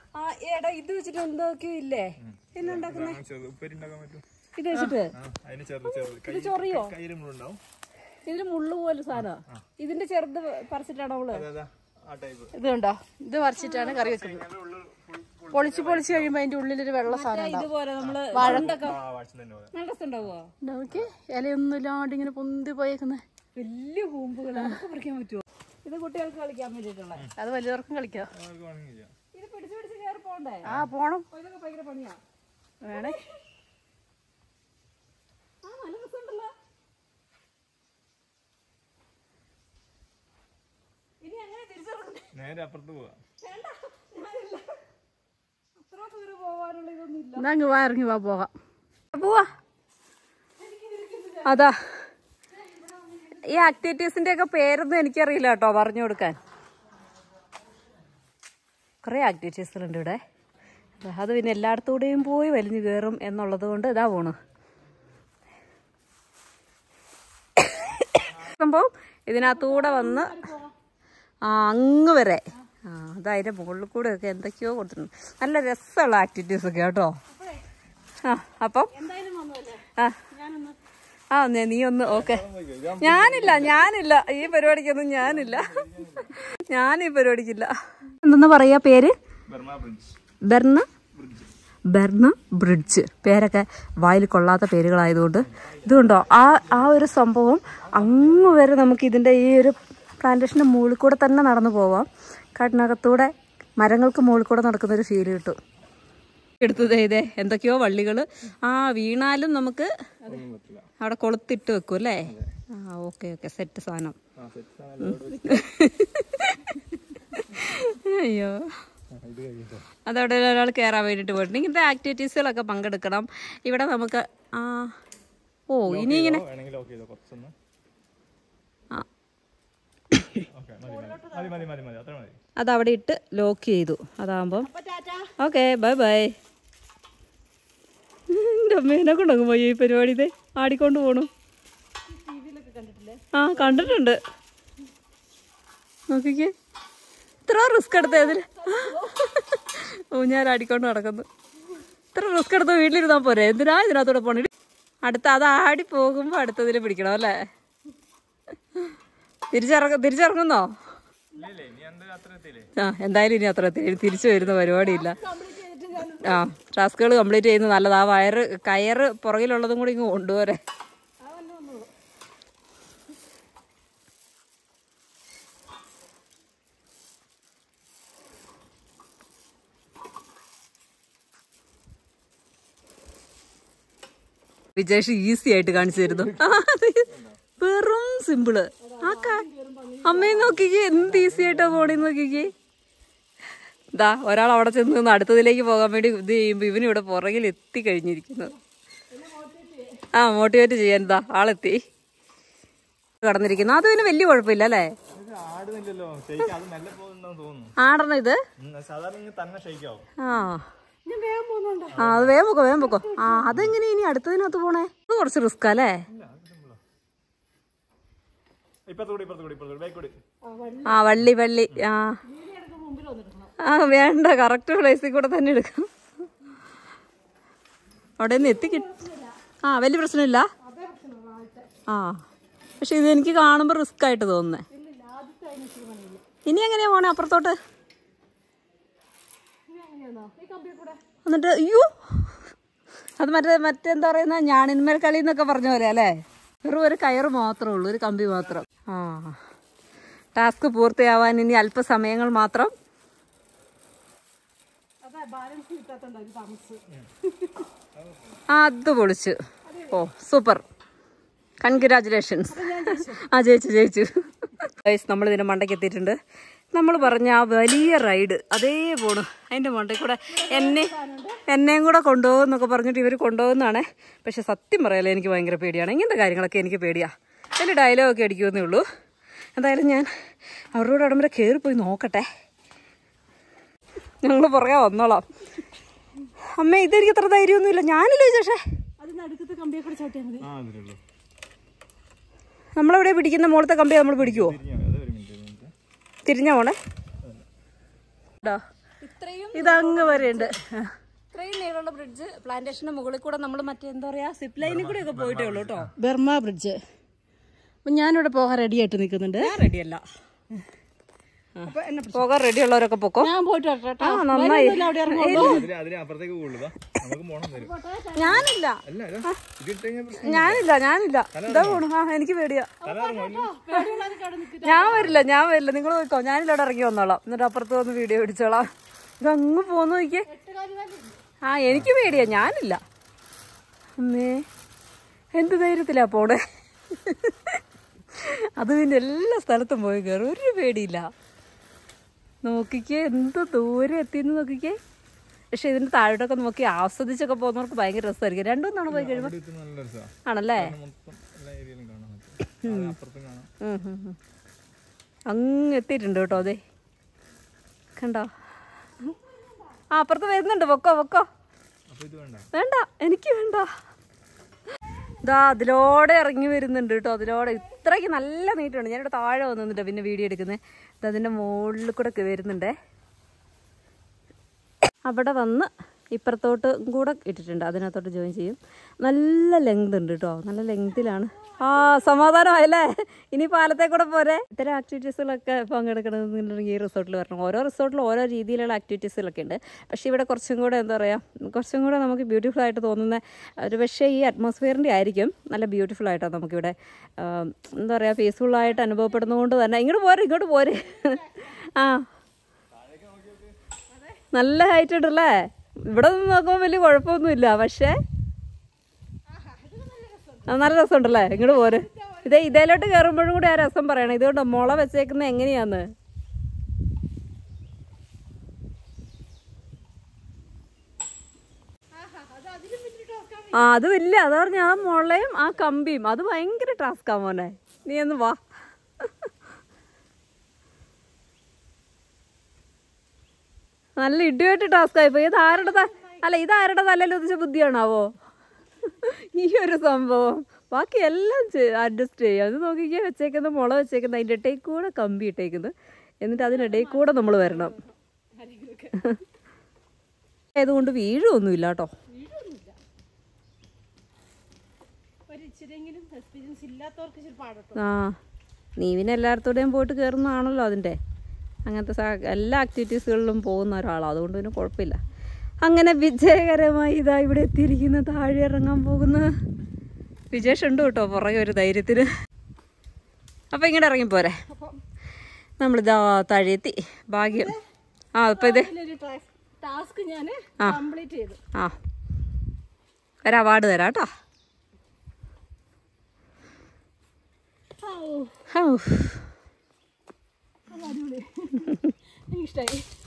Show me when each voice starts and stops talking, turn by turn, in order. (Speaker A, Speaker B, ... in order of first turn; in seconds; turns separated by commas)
Speaker A: 0.1-3.2, Speaker B: 2.2-4.2, Speaker A: 4.6-5.1, Speaker B: 5.1-7.6, Speaker A: 5.9-6.9, Speaker A: 8.3-11.5, Speaker B: 9.2-9.7, Speaker B: 11.3-12.5, Speaker C: 12.5-14.4, Speaker A: 13.6-14.1, Speaker B: 13.9-16.4, Speaker C: 15.5-17.7, Speaker A: 17.1-18.9, Speaker B: 18.0-19.7, Speaker C: 18.3-18.8, Speaker A: 19.7-20.5, Speaker C: 20.6-23.2, Speaker B: 20.9-21.1, Speaker A: 23.6-27.3, Speaker C: 27.4-28.3, Speaker B: 28.3-29.1, Speaker A: 29.3-30.7, Speaker C: 30.6-31.2, Speaker B: 30.7-30.9, Speaker A: 31.3-32.2, Speaker C: 32.8-33.2, Speaker A: 32.9-33.4, Speaker A: 35.6-36.5, Speaker A: 41.2-42.3, Speaker B: 42.3-43.2, Speaker A: 43.4-44.8, Speaker A: 45.8-47.5, Speaker C: 47.4-48.5, Speaker A: 49.1-49.5, Speaker C: 50.6-51.7, Speaker A: 51.5-51.8, Speaker C: 52.5-53.7, Speaker A: 53.4-56.4, Speaker A: 59.0-60.2, Speaker A: 61.0-64.4, Speaker A: 67.6-70.4, Speaker C: 69.4-70.7, Speaker A: 71.4-77.2, Speaker C: 77.3-77.6, Speaker A: 78.2-78.9, Speaker C: 78.9-80.8, Speaker A: 81.3-82.4, Speaker B: 82.0-83.9, Speaker A: 83.0-89.2, Speaker B: 85.2-86.4, Speaker B: 89.5-90.2, Speaker A: 90.5-90.9, Speaker B: 91.1-91.5, Speaker A: 91.9-105.6, Speaker B: 95.5-97.0, Speaker B: 97.9-98.6, Speaker A: 106.6-109.9, Speaker B: 110.3-110.9, Speaker A: 111.0-114.2, Speaker B: 112.2-112.5, Speaker B: 114.4-115.7, Speaker A: 115.1-118.8, Speaker B: 119.1-119.9, Speaker A: 120.1-124.9, Speaker A: 125.7-126.4, Speaker B: 125.9-127.5, Speaker B: 130.5-132.4, Speaker C: 130.8-131.6, Speaker A: 132.6-134.7, Speaker C: 134.6-135.3, Speaker A: 135.4-136.3, Speaker A: 138.3-141.3, Speaker C: 142.1-144.0, Speaker A: 143.3-144.2, Speaker A: 146.1-146.5, Speaker A: 147.5-151.3, Speaker C: 147.9-149.2, Speaker A: 152.1-154.5, Speaker A: 155.0-157.5, Speaker A: 159.5-160.7, Speaker B: 161.3-162.7, Speaker A: 162.8-165.2, Speaker B: 163.8-165.2, Speaker C: 164.8-166.5, Speaker A: 166.2-170.6, Speaker C: 171.2-171.9, Speaker A: 184.8-187.1, Speaker B: 185.7-187.4, Speaker A: 187.6-189.4, Speaker C: 188.8-190.6, Speaker A: 190.0-192.5, Speaker B: 190.5-192.1, Speaker A: 193.9-198.5, Speaker C: 199.1-200.0, Speaker A: 200.1-201.8, Speaker A: 203.2-204.9, Speaker B: 205.1-207.7, Speaker A: 207.8-208.4, Speaker B: 208.6-210.1, Speaker A: 210.2-210.6, Speaker C: 211.1-212.0, Speaker B: 211.9-212.4, Speaker A: 212.0-216.0, Speaker C: 212.8-213.6, Speaker B: 216.1-216.8, Speaker B: 218.9-220.2, Speaker C: 220.4-221.1, Speaker A: 220.9-222.2, Speaker C: 222.2-223.6, Speaker A: 223.6-225.9, Speaker A: 228.2-228.8, Speaker C: 228.4-229.3, Speaker A: 229.6-230.5, Speaker C: 230.6-231.7, Speaker A: 231.9-232.2, Speaker A: 232.8-234.7, Speaker C: 234.7-236.2, Speaker A: 236.5-237.6, Speaker C: 239.7-241.0, Speaker A: 241.2-242.3, Speaker A: 243.2-249.4, Speaker A: 250.3-252.7, Speaker C: 255.0-257.6, Speaker B: 257.9-258.4, Speaker A: 258.5-259.4, Speaker C: 259.7-260.0, Speaker A: 259.9-260.6, Speaker A: 261.6-266.2, Speaker C: 262.5-263.2, Speaker A: 266.7-270.9, Speaker C: 270.3-271.4, Speaker A: 271.5-278.8, Speaker A: 279.6-280.1, Speaker A: 280.7-282.3, Speaker A: 284.2-285.3, Speaker A: 286.6-288.6, Speaker C: 289.0-290.5, Speaker B: 290.4-291.0, Speaker A: 292.8-294.6, Speaker B: 294.2-295.7, Speaker A: 296.3-296.8, Speaker A: 298.4-300.5, Speaker C: 299.5-300.9, Speaker A: 301.3-305.9, Speaker B: 304.6-305.9, Speaker C: 306.0-306.8, Speaker C: 307.9-309.5, Speaker A: 309.4-310.0, Speaker A: 311.6-313.3, Speaker C: 311.7-312.2, Speaker C: 313.2-315.7, Speaker A: 314.0-315.6, Speaker B: 315.3-317.7, Speaker C: 317.5-318.5, Speaker A: 318.1-319.4, Speaker B: 318.8-320.7, Speaker A: 320.2-322.7, Speaker B: 321.3-321.9, Speaker B: 322.8-323.5, Speaker C: 322.8-325.1, Speaker A: 323.7-324.0, Speaker A: 324.6-328.7, Speaker B: 324.9-325.2, Speaker A: 329.2-330.3, Speaker C: 330.3-331.2, Speaker A: 331.4-332.8, Speaker B: 331.7-332.4, Speaker A: 334.0-334.4, Speaker A: 335.4-336.4, Speaker A: 336.9-337.6, Speaker A: 338.2-341.1, Speaker A: 342.4-344.8, Speaker A: 345.5-349.3, Speaker B: 348.9-353.5, Speaker A: 350.3-350.7, Speaker A: 352.6-352.9, Speaker A: 353.6-354.2, Speaker A: 355.3-356.6, Speaker A: 358.0-358.3, Speaker C: 359.0-359.8, Speaker A: 359.9-361.3, Speaker B: 361.9-362.5, Speaker A: 362.5-363.7, Speaker A: 365.2-372.8, Speaker A: 375.1-402.1, Speaker C: 401.1-401.4, Speaker B: 402.7-403.6, Speaker C: 403.9-404.2, Speaker A: 404.3-408.0, Speaker C: 409.3-410.7, Speaker A: 410.5-415.9, Speaker C: 411.3-412.9, Speaker C: 422.0-423.7, Speaker A: 423.5-428.4, Speaker A: 434.0-438.1, Speaker C: 435.4-436.2, Speaker A: 438.9-447.8, Speaker C: 446.4-449.2, Speaker A: 450.6-451.9, Speaker C: 452.1-452.8, Speaker C: 455.3-457.8, Speaker A: 457.8-458.2, Speaker A: 458.8-461.0, Speaker A: 461.7-465.0, Speaker A: 465.6-469.3, Speaker A: 470.3-472.1, Speaker A: 473.5-474.4, Speaker A: 475.6-477.6, Speaker C: 477.2-477.6, Speaker A: 478.2-478.7, Speaker C: 478.4-481.4, Speaker A: 483.2-484.1, Speaker C: 487.8-488.4, Speaker A: 488.5-489.2, Speaker C: 490.7-492.9